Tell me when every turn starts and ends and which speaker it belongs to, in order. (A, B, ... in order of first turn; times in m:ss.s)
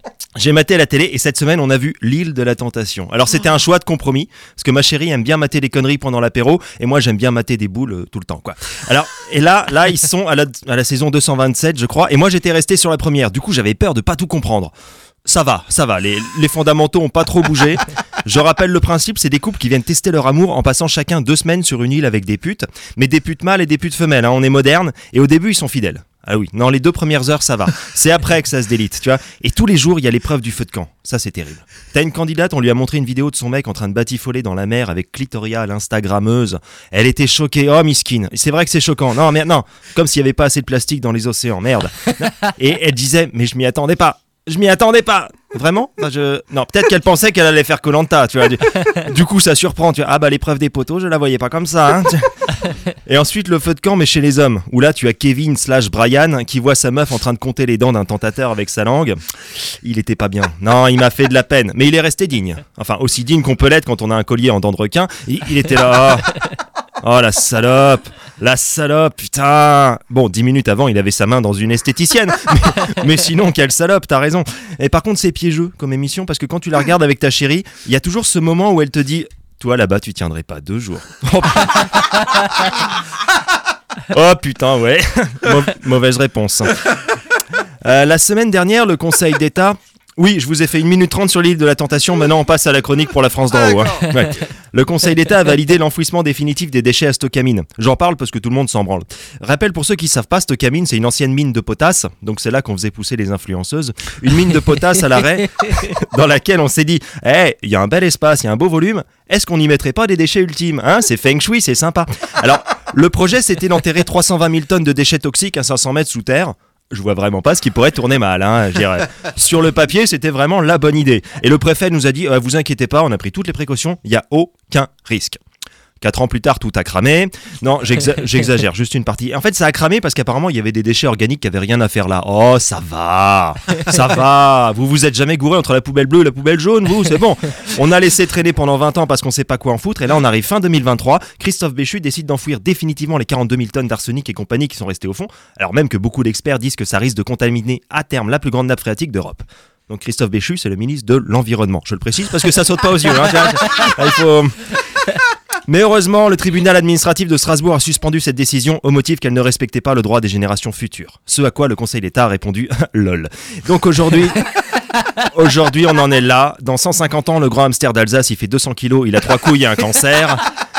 0:00.4-0:14.7 A
0:15.2-0:52.3 A
0:53.0-0:59.2 A
0:59.8-1:22.9 A
1:24.0-1:27.0 A
1:27.8-2:05.4 A
2:06.0-2:34.8 A
2:35.7-2:50.5 A